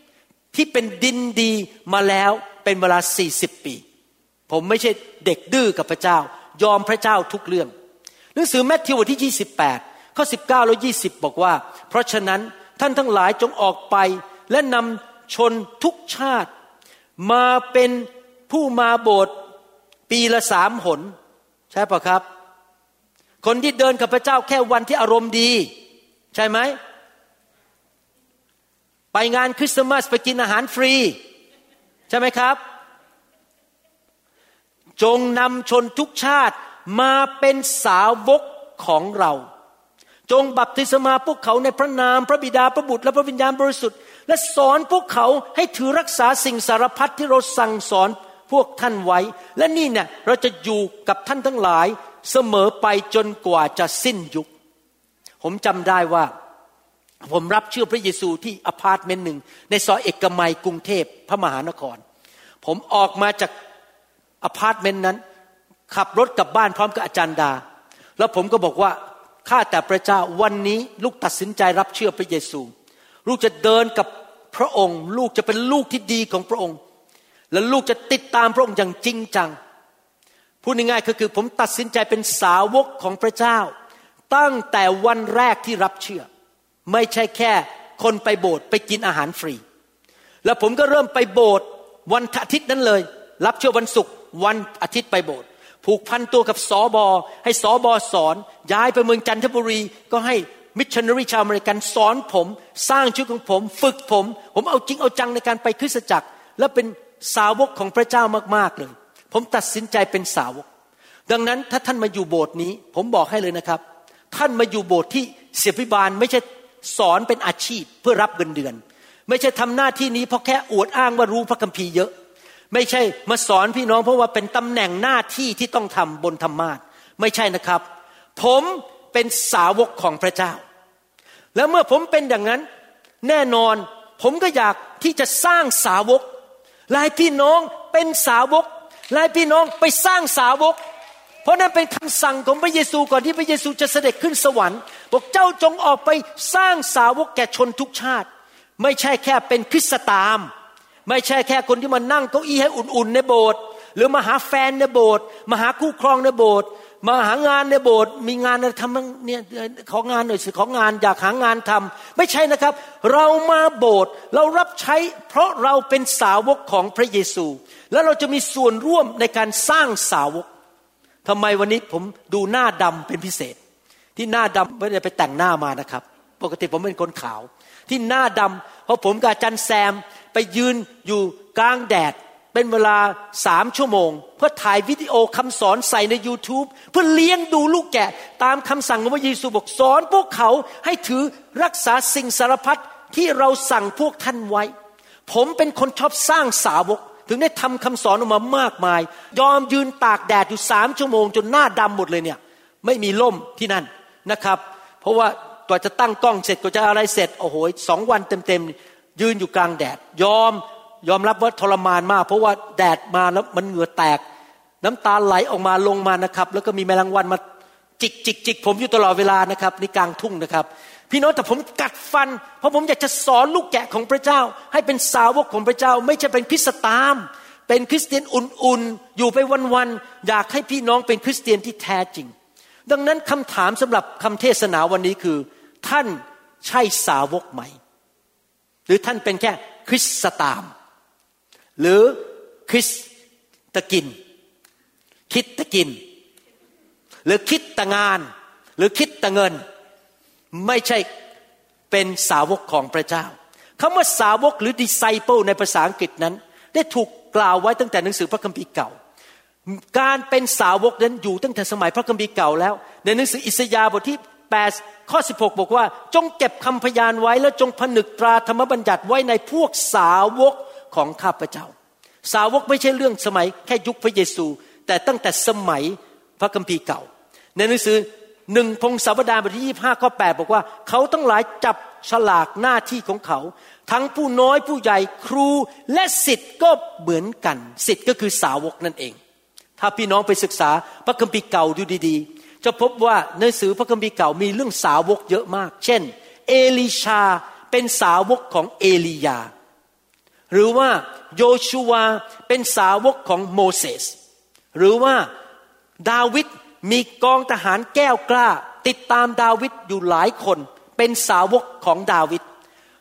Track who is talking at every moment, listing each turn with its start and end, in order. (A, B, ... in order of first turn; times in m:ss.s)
0:00.5-0:03.8 A
0:04.5-0:07.7 A
0:08.3-0:16.5 A
0:17.2-0:19.3 A
0:20.1-0:21.1 A
0:21.7-0:22.2 A
0:23.4-0:25.7 A
0:26.3-0:26.8 A
0:29.1-0:31.2 A
0:32.1-0:32.6 A
0:35.0-0:39.4 A
0:40.3-0:54.5 A
0:55.4-0:56.3 A
0:57.2-1:02.0 A
1:02.6-1:03.5 A
1:04.4-1:05.2 A
1:05.9-1:07.6 A
1:08.2-1:12.7 A
1:13.2-1:16.8 A
1:17.5-1:19.6 A
1:20.6-1:23.7 A
1:24.3-1:26.3 A
1:26.8-1:29.6 A
1:30.4-1:50.6 A
1:51.3-2:02.1 A
2:02.7-2:07.8 A
2:08.4-2:10.6 A
2:11.5-2:12.6 A
2:13.2-2:16.2 A
2:16.9-2:20.8 A
2:21.4-2:28.3 A
2:28.8-2:30.5 A
2:31.0-2:50.5 A
2:51.2-2:53.6 A
2:54.2-3:14.7 A
3:15.3-3:34.2 A
3:34.8-3:37.4 A
3:38.0-3:52.3 A
3:52.9-3:57.7 A
3:58.9-4:00.7 A
4:01.8-4:03.1 A
4:03.7-4:04.2 A
4:05.3-4:06.0 A
4:07.2-4:09.6 A
4:10.5-4:11.1 A
4:11.9-4:18.9 A
4:19.7-4:31.7 A
4:32.2-4:49.2 A
4:49.8-4:59.5 A
5:00.5-5:04.1 A
5:04.7-5:05.3 A
5:06.0-5:12.4 A